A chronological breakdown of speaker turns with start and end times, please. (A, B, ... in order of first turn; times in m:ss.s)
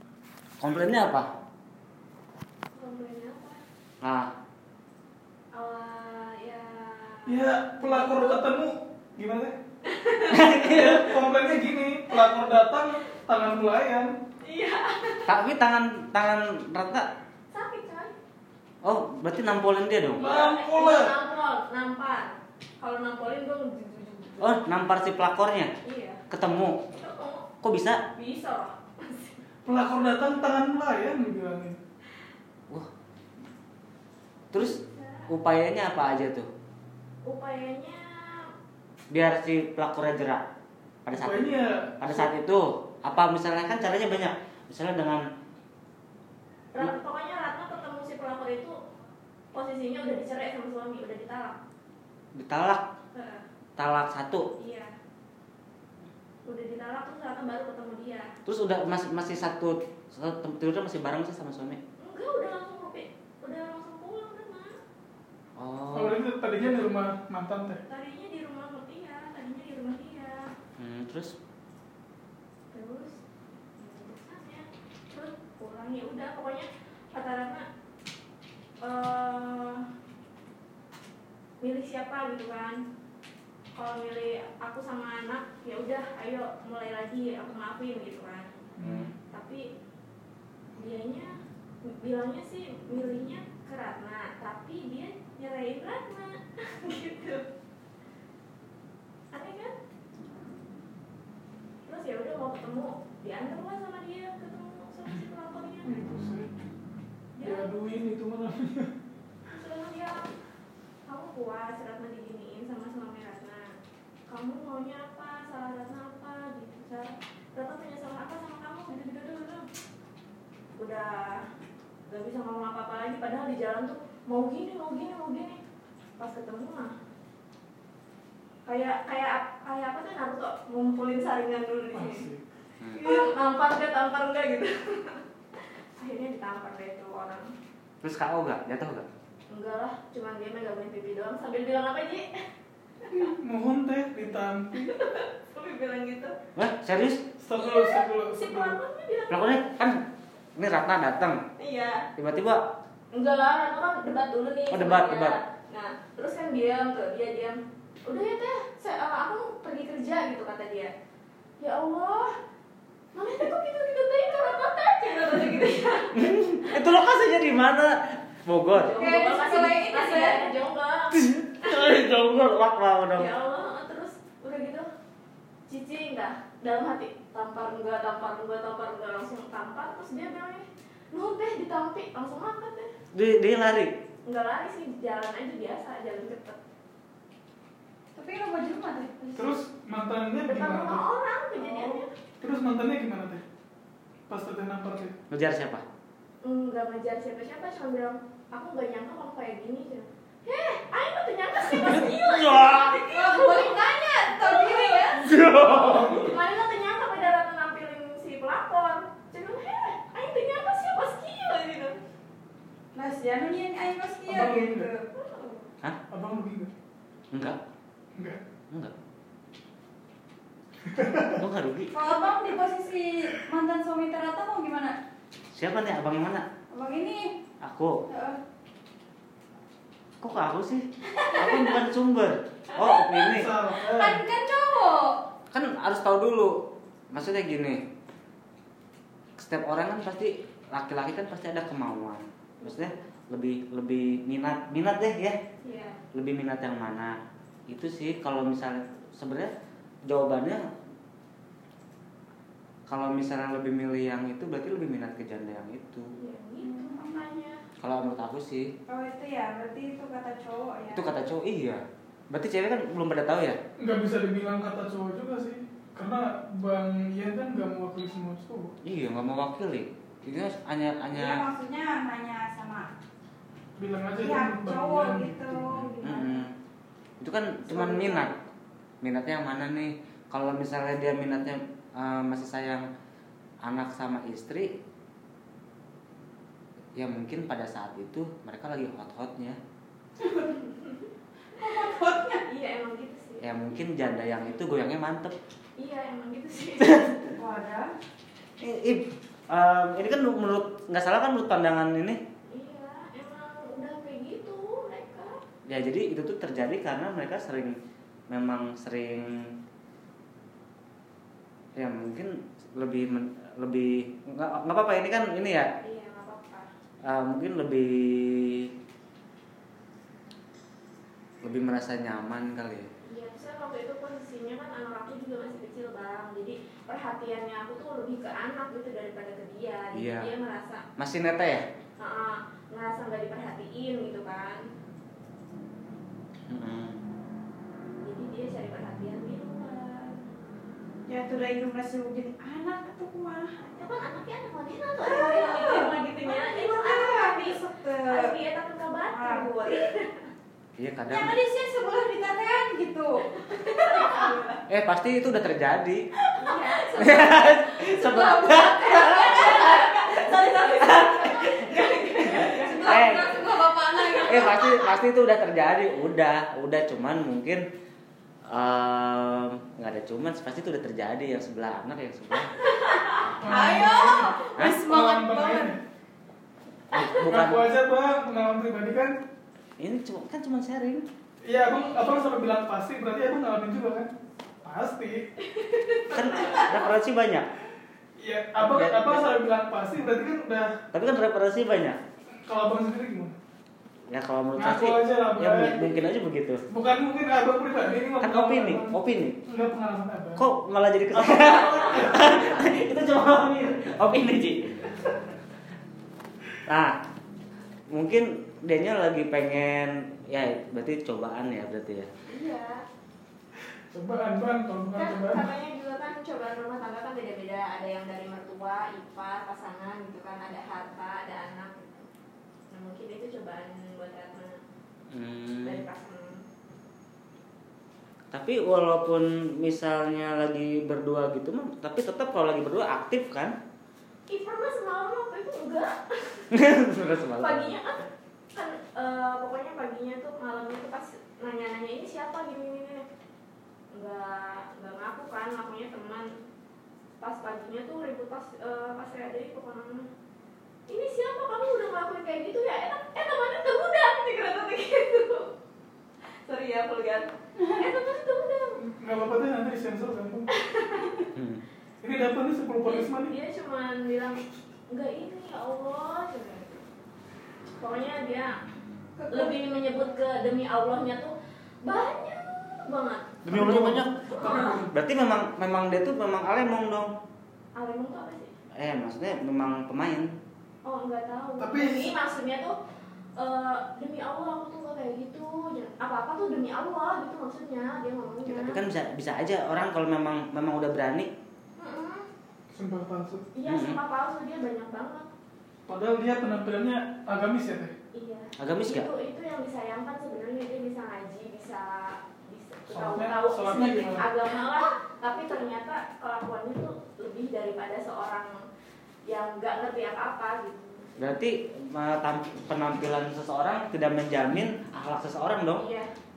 0:00.6-0:01.3 A
0:02.7-0:03.6 B
0:04.0-0:04.3 A
0:05.5-0:08.5 B
0:07.3-0:09.6 C
0:09.9-0:10.8 B
0:10.3-0:11.1 A
0:10.6-0:14.1 C
0:14.4-0:15.3 B
0:15.3-0:17.1 A
0:17.5-0:18.1 B
0:18.8-0:20.3 A
0:20.2-0:24.6 B
0:20.2-0:21.1 C
0:24.4-0:25.7 A
0:25.8-0:26.2 B
0:26.3-0:26.8 A
0:27.0-0:27.5 B
0:27.6-0:28.0 A
0:28.2-0:29.4 B
0:29.6-0:31.8 C
0:34.5-0:34.8 A
0:34.5-0:35.3 B
0:35.3-0:36.5 A
0:37.2-0:38.5 B
0:39.1-0:40.4 A
0:41.0-0:41.5 A
0:41.1-0:42.3 C
0:42.0-0:45.2 A
0:46.7-0:48.8 B
0:49.5-0:51.6 B
0:52.4-0:52.8 A
0:53.1-0:53.4 B
0:53.8-0:54.5 A
0:54.6-0:54.9 B
0:56.5-0:58.3 B
0:58.5-1:01.8 A
1:02.0-1:04.7 B
1:05.6-1:06.2 A
1:05.9-1:07.8 C
1:07.9-1:10.5 B
1:10.8-1:11.3 A
1:12.7-1:13.2 B
1:13.8-1:17.6 B
1:18.8-1:19.8 B
1:21.6-1:22.8 B
1:23.8-1:28.5 B
1:28.8-1:29.1 C
1:28.8-1:29.1 A
1:29.3-1:29.6 B
1:30.8-1:31.4 B
1:31.9-1:37.4 B
1:39.3-1:39.7 B
1:41.9-1:46.0 B
1:45.8-1:46.5 C
1:47.4-1:47.7 B
1:47.4-1:48.9 C
1:49.6-1:50.3 B
1:51.1-1:53.7 B
1:54.3-1:59.7 B
2:00.8-2:01.4 B
2:02.1-2:05.6 B
2:06.2-2:06.9 B
2:08.7-2:12.3 B
2:11.9-2:12.4 C
2:12.9-2:15.2 B
2:16.0-2:17.5 B
2:18.0-2:19.1 A
2:19.5-2:22.2 B
2:23.1-2:24.9 C
2:24.7-2:26.4 B
2:26.6-2:27.2 A
2:27.4-2:28.8 C
2:27.6-2:29.6 B
2:29.3-2:30.0 A
2:30.6-2:31.4 A
2:31.6-2:32.1 B
2:32.2-2:32.6 A
2:33.1-2:40.9 B
2:34.7-2:35.4 A
2:41.6-2:42.3 B
2:43.1-2:46.3 B
2:46.2-2:49.0 A
2:48.7-2:52.0 B
2:49.0-2:50.5 D
2:51.2-2:53.3 A
2:53.2-2:54.8 B
2:55.7-3:02.9 B
3:03.1-3:03.9 A
3:04.3-3:06.6 B
3:08.2-3:09.5 D
3:09.4-3:11.1 C
3:10.5-3:12.1 B
3:12.4-3:13.4 C
3:14.3-3:15.2 C
3:15.3-3:15.8 A
3:16.4-3:25.2 B
3:21.8-3:23.0 A
3:23.1-3:25.3 D
3:25.2-3:26.3 A
3:25.9-3:32.0 B
3:32.9-3:35.1 D
3:34.3-3:34.9 C
3:35.1-3:35.7 B
3:36.1-3:36.7 C
3:37.3-3:37.6 A
3:38.2-3:38.4 C
3:40.9-3:41.4 C
3:41.2-3:41.9 A
3:41.9-3:45.0 D
3:45.5-3:46.4 A
3:46.7-3:47.3 D
3:47.6-3:47.9 A
3:48.1-3:48.4 D
3:50.2-3:53.5 A
3:51.1-3:51.7 D
3:53.3-3:54.2 C
3:53.7-3:55.2 D
3:55.5-3:56.5 A
3:57.1-3:57.8 A
3:59.4-4:05.4 A
4:02.6-4:03.0 B
4:05.6-4:06.0 B
4:06.1-4:07.2 A
4:07.7-4:09.5 A
4:10.1-4:10.6 A
4:12.9-4:16.1 A
4:16.2-4:17.6 B
4:16.6-4:17.2 D
4:17.8-4:18.7 A
4:18.9-4:21.1 D
4:20.9-4:23.6 A
4:23.8-4:28.7 C
4:28.8-4:31.4 A
4:31.1-4:32.9 D
4:33.8-4:35.6 C
4:34.2-4:36.5 D
4:35.7-4:36.5 A
4:37.2-4:38.4 A
4:37.7-4:38.3 D
4:39.0-4:42.9 A
4:43.6-4:44.7 A
4:47.0-4:49.6 A
4:50.2-4:53.4 B
4:51.6-4:52.4 D
4:53.4-4:55.4 A
4:55.8-4:57.2 B
4:57.3-4:57.9 D
4:58.6-5:02.2 A
5:02.5-5:05.4 B
5:05.7-5:07.8 A
5:08.3-5:09.3 A
5:11.8-5:15.7 A
5:15.8-5:16.7 B
5:17.0-5:18.7 A
5:21.4-5:22.9 A
5:23.1-5:30.8 B
5:29.9-5:30.3 A
5:31.0-5:31.6 A
5:32.0-5:34.6 B
5:36.5-5:37.0 A
5:38.0-5:40.2 B
5:41.1-5:43.8 D
5:43.7-5:50.2 B
5:45.0-5:48.4 D
5:49.1-5:49.8 D
5:50.8-5:51.4 A
5:51.1-5:54.5 D
5:53.7-5:54.6 B
5:54.7-5:56.0 A
5:56.4-6:00.9 D
5:56.4-5:57.3 B
5:57.0-6:00.2 A
5:59.0-6:04.5 B
6:00.8-6:01.7 A
6:01.9-6:04.8 D
6:02.2-6:03.5 A
6:04.2-6:07.6 A
6:08.5-6:12.5 A
6:12.6-6:13.3 B
6:13.4-6:15.8 C
6:13.5-6:15.7 D
6:16.9-6:17.7 A
6:17.3-6:19.2 C
6:19.8-6:21.0 A
6:21.4-6:24.1 C
6:24.6-6:25.3 C
6:25.4-6:26.9 B
6:26.1-6:27.5 A
6:28.2-6:30.7 C
6:28.6-6:29.3 A
6:30.9-6:32.0 A
6:32.4-6:33.3 C
6:34.1-6:36.6 A
6:34.6-6:35.9 C
6:36.7-6:40.4 C
6:38.2-6:39.4 A
6:40.4-6:45.1 A
6:46.7-6:47.0 A
6:47.9-6:52.1 A
6:52.3-6:52.9 B
6:53.9-6:55.5 C
6:54.9-7:02.1 B
7:02.7-7:04.6 B
7:05.1-7:05.8 A
7:05.6-7:06.4 B
7:08.3-7:13.6 A
7:14.3-7:16.5 B
7:16.5-7:17.8 A
7:17.4-7:18.0 B
7:18.6-7:23.1 B
7:23.9-7:26.3 B
7:27.2-7:30.1 B
7:30.9-7:35.5 B
7:36.4-7:38.8 B
7:38.8-7:40.5 C
7:40.5-7:41.3 B
7:41.3-7:41.6 A
7:42.0-7:43.4 C
7:42.8-7:44.4 B
7:44.9-7:46.8 B
7:47.8-7:48.5 B
7:49.2-7:49.5 D
7:49.3-7:54.8 B
7:53.4-7:57.1 A
7:53.5-7:54.9 C
7:57.8-7:58.5 B
7:58.8-8:00.3 A
8:00.8-8:02.8 B
8:01.6-8:02.1 C
8:03.4-8:08.8 B
8:08.4-8:11.3 A
8:11.8-8:12.3 B
8:12.7-8:13.4 C
8:13.5-8:15.3 B
8:13.7-8:14.0 A
8:15.9-8:17.9 C
8:18.1-8:28.5 B
8:18.6-8:19.1 A
8:22.9-8:24.3 C
8:29.3-8:31.2 B
8:31.2-8:35.9 A
8:35.8-8:36.1 B